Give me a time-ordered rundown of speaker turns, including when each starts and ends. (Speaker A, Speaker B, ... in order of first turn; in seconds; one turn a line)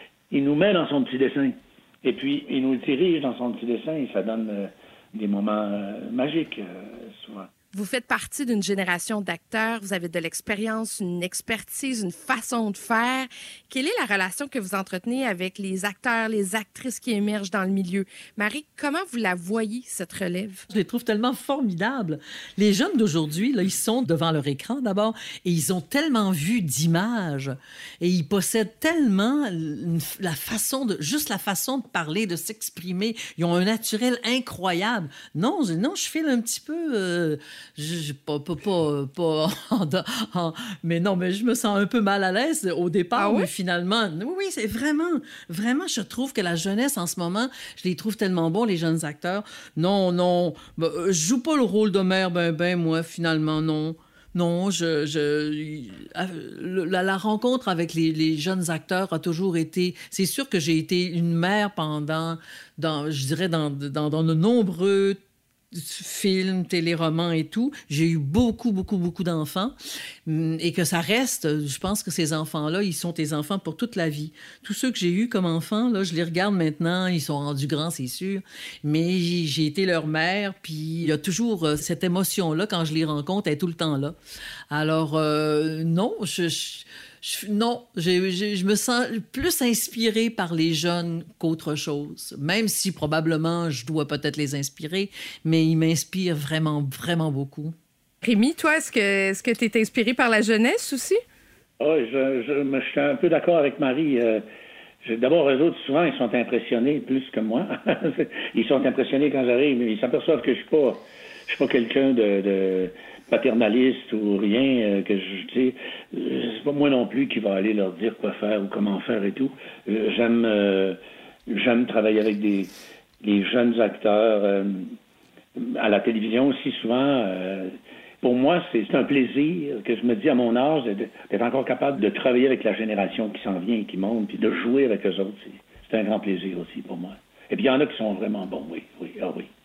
Speaker A: 0.3-7.5
Speaker B: 7.7-20.6
Speaker C: 20.7-65.2
Speaker B: 43.1-43.5
Speaker C: 65.7-69.7
Speaker C: 70.2-84.2
Speaker C: 84.7-97.8
Speaker B: 98.2-101.2
Speaker A: 101.8-104.4
Speaker A: 105.0-121.0
Speaker A: 121.5-122.7
Speaker A: 123.2-124.9
Speaker A: 125.6-139.5